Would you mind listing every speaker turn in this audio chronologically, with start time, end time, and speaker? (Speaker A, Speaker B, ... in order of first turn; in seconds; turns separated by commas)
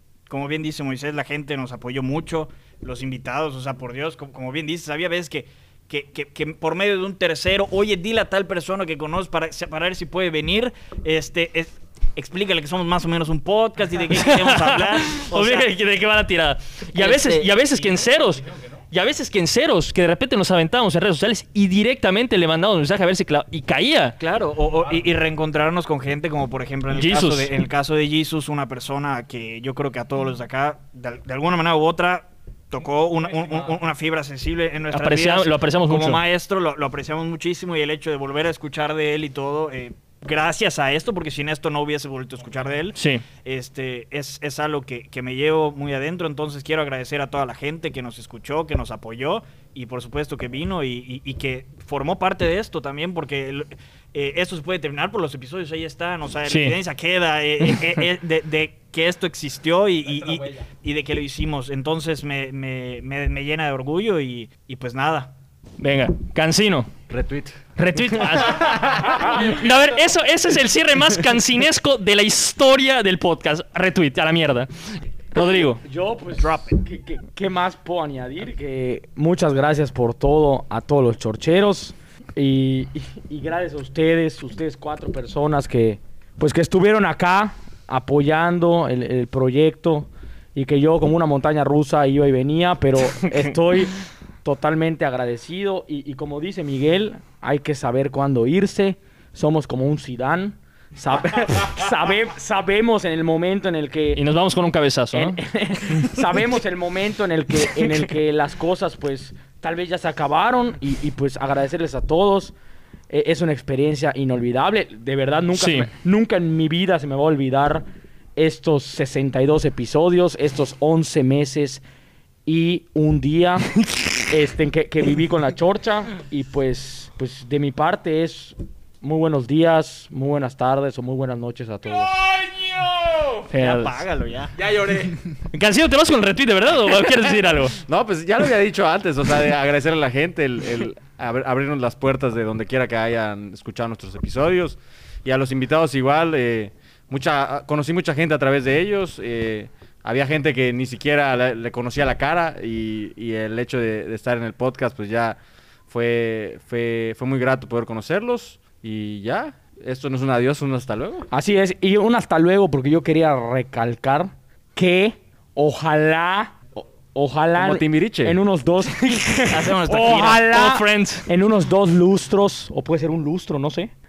Speaker A: 0.3-15.7, Speaker B: 14.1-24.1, Speaker A: 16.9-18.0, Speaker A: 24.2-65.3, Speaker B: 26.9-27.5, Speaker B: 34.9-36.2, Speaker B: 43.0-43.2, Speaker B: 56.4-56.8, Speaker B: 65.8-66.9, Speaker C: 67.1-67.5, Speaker B: 67.8-75.8, Speaker C: 68.5-69.2, Speaker D: 75.8-104.2, Speaker A: 76.4-76.8, Speaker B: 104.1-105.4, Speaker D: 105.1-112.5, Speaker D: 113.1-121.8, Speaker B: 115.5-115.9, Speaker D: 122.5-132.1, Speaker E: 131.8-133.4, Speaker B: 133.5-134.0, Speaker A: 133.5-134.5, Speaker E: 134.6-135.2, Speaker B: 135.5-137.8, Speaker C: 137.8-155.4, Speaker C: 155.9-161.3, Speaker D: 161.3-173.9, Speaker C: 167.5-168.4, Speaker A: 169.5-170.5, Speaker B: 170.0-171.3